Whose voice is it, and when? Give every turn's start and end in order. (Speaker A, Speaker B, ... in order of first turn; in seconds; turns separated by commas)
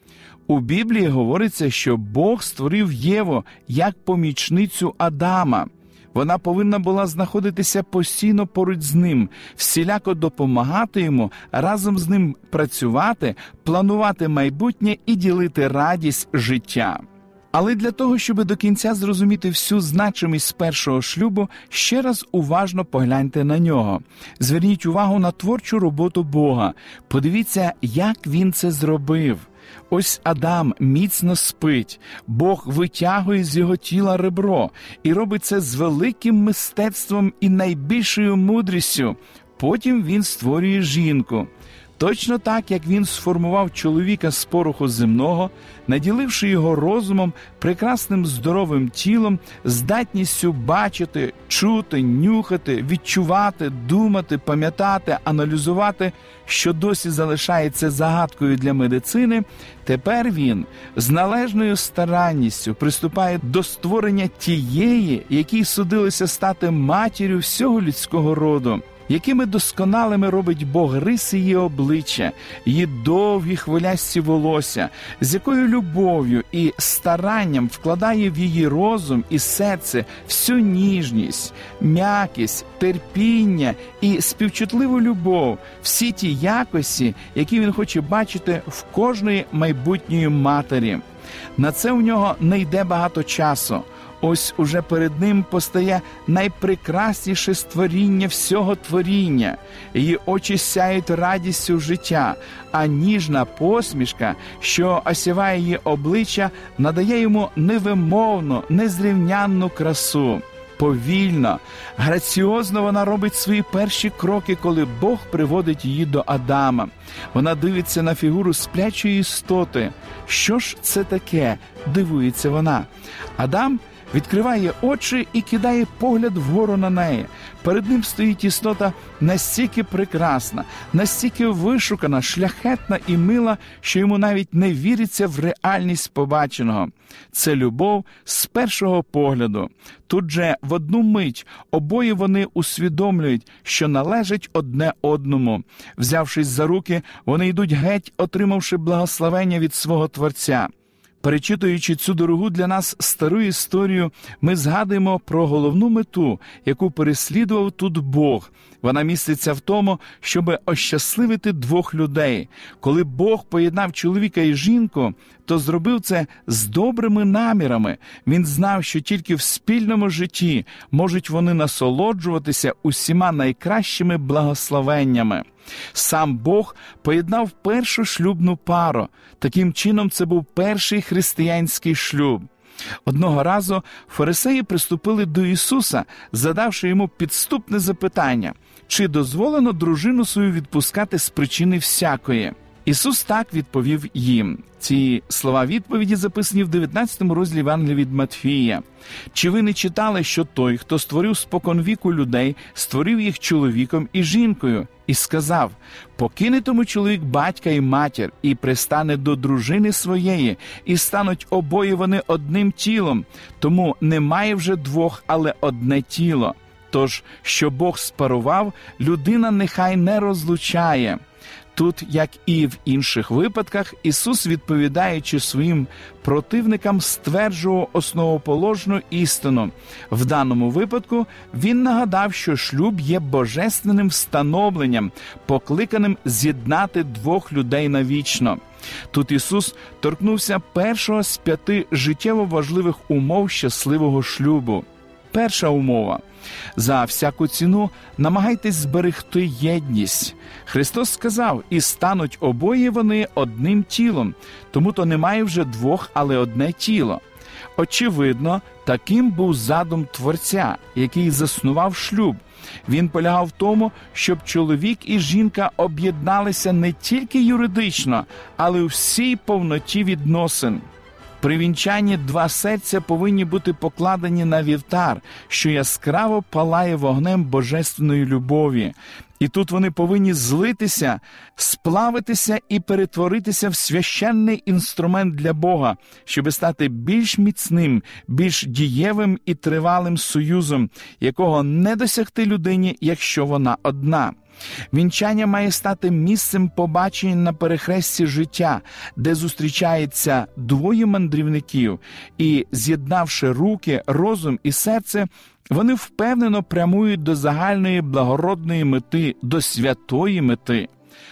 Speaker A: 0.5-91.0, Speaker A: 91.6-150.7, Speaker A: 151.2-182.5, Speaker A: 183.1-221.2, Speaker A: 221.7-238.6, Speaker A: 239.1-246.2, Speaker A: 246.8-257.2, Speaker A: 257.8-270.9, Speaker A: 271.4-294.4, Speaker A: 294.9-310.9